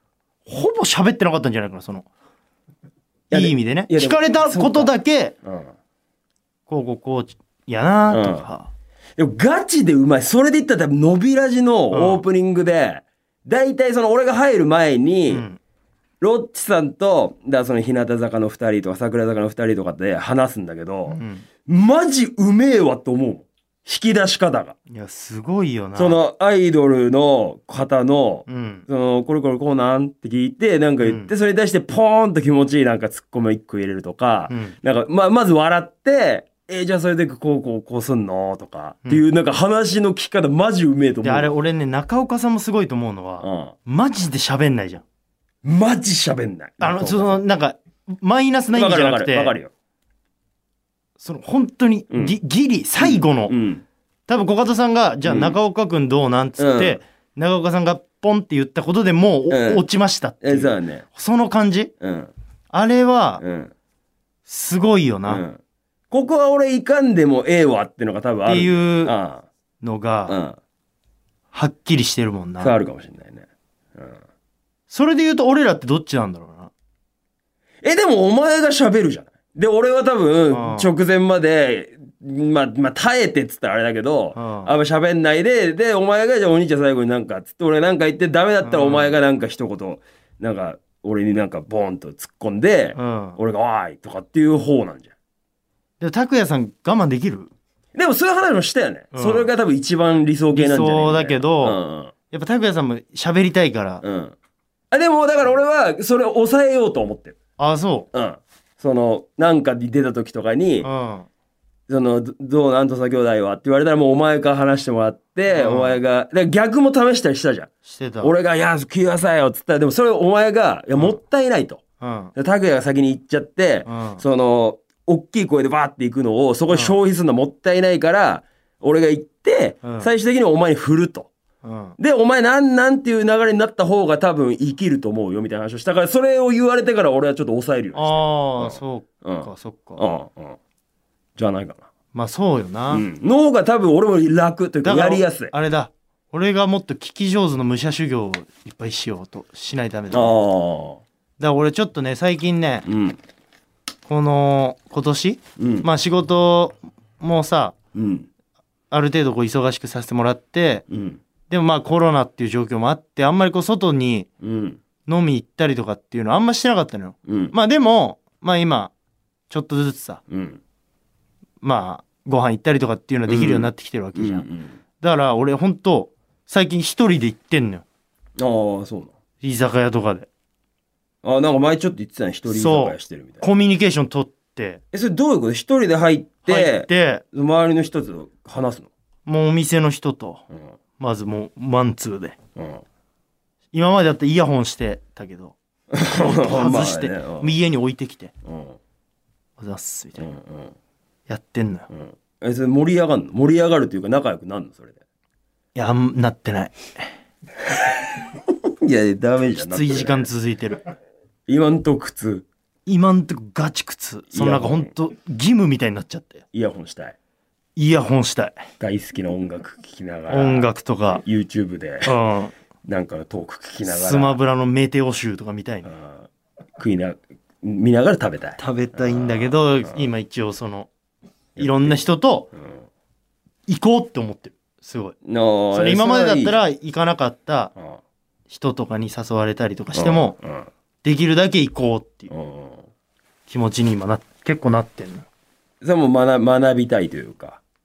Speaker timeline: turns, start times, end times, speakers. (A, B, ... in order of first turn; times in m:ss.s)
0:00.4-0:02.1 A
0:03.3-0:04.9 B
0:03.3-0:05.3 A
0:05.4-0:05.7 B
0:06.7-0:08.7 A
0:08.1-0:08.5 B
0:09.2-0:15.4 B
0:11.9-0:12.2 A
0:15.3-0:15.6 A
0:16.2-0:24.7 B
0:21.1-0:21.4 A
0:24.9-0:26.2 A
0:26.0-0:41.5 B
0:28.5-0:28.8 A
0:31.0-0:31.3 A
0:34.5-0:34.8 A
0:41.2-0:45.0 A
0:43.4-0:43.7 B
0:45.6-0:47.4 B
0:46.8-0:49.6 A
0:48.7-0:49.7 B
0:51.2-0:53.5 A
0:52.1-0:52.3 B
0:53.0-0:53.8 B
0:54.3-1:01.9 A
0:55.2-0:55.5 B
0:56.6-0:57.0 B
0:59.5-0:59.8 B
1:00.4-1:01.0 B
1:02.0-1:02.3 B
1:02.7-1:03.4 A
1:03.4-1:03.7 B
1:04.4-1:05.4 A
1:05.3-1:05.6 B
1:06.1-1:09.5 B
1:08.4-1:09.2 A
1:09.8-1:10.4 A
1:10.3-1:10.6 B
1:11.5-1:12.7 A
1:12.6-1:14.2 B
1:14.9-1:16.7 A
1:17.8-1:35.1 B
1:20.5-1:20.9 A
1:24.3-1:24.8 A
1:28.6-1:29.2 A
1:33.0-1:33.4 A
1:36.0-1:37.5 A
1:37.9-1:42.1 B
1:39.1-1:39.5 A
1:40.5-1:41.8 A
1:42.3-1:44.0 A
1:44.0-1:44.3 B
1:44.9-1:47.4 B
1:47.6-1:48.1 A
1:48.1-1:50.9 B
1:50.8-1:51.3 A
1:51.9-2:01.8 B
1:55.5-1:56.0 A
1:57.8-1:58.3 A
2:02.0-2:02.3 A
2:02.3-2:11.3 B
2:03.8-2:04.2 A
2:06.7-2:07.0 A
2:09.8-2:10.1 A
2:11.6-2:12.0 A
2:12.0-2:20.6 B
2:17.9-2:20.2 A
2:21.4-2:21.9 B
2:22.1-2:23.1 A
2:22.9-2:25.5 B
2:24.8-2:30.3 A
2:30.1-2:31.0 B
2:31.4-2:32.8 A
2:32.8-2:33.2 B
2:34.1-2:37.7 A
2:35.6-2:35.9 B
2:37.9-2:38.3 B
2:38.9-2:40.8 A
2:40.9-2:41.2 B
2:41.5-2:44.3 A
2:44.4-2:44.8 B
2:45.1-2:48.9 A
2:47.3-2:47.5 B
2:49.5-2:50.2 A
2:50.3-2:50.6 B
2:51.6-2:54.4 A
2:53.3-2:54.8 B
2:55.0-2:57.8 A
2:58.4-2:59.1 B
2:59.4-3:00.3 A
3:01.2-3:03.5 B
3:02.5-3:04.8 A
3:04.9-3:08.9 B
3:06.4-3:07.2 A
3:09.2-3:10.4 A
3:11.0-3:12.4 A
3:12.6-3:12.8 B
3:13.7-3:15.5 A
3:15.9-3:17.5 B
3:16.1-3:18.3 A
3:18.4-3:18.8 B
3:19.6-3:20.2 A
3:20.2-3:20.7 B
3:21.3-3:21.9 A
3:21.9-3:25.0 B
3:25.7-3:27.1 A
3:27.7-3:30.3 B
3:29.6-3:30.9 A
3:31.5-3:32.4 B
3:32.9-3:36.4 A
3:34.3-3:34.9 B
3:36.5-3:37.2 B
3:37.8-3:38.6 A
3:38.8-3:42.2 B
3:40.3-3:41.2 A
3:42.0-3:42.5 A
3:42.8-3:44.4 B
3:43.8-3:45.9 A
3:45.8-3:50.0 B
3:48.6-3:50.9 A
3:51.6-3:52.5 A
3:51.6-3:52.0 B
3:53.7-3:55.1 A
3:55.2-3:56.6 B
3:55.7-3:57.7 A
3:58.5-4:00.4 A
4:00.0-4:00.7 B
4:01.0-4:02.3 A
4:02.3-4:02.9 B
4:03.5-4:05.3 A
4:05.8-4:07.6 B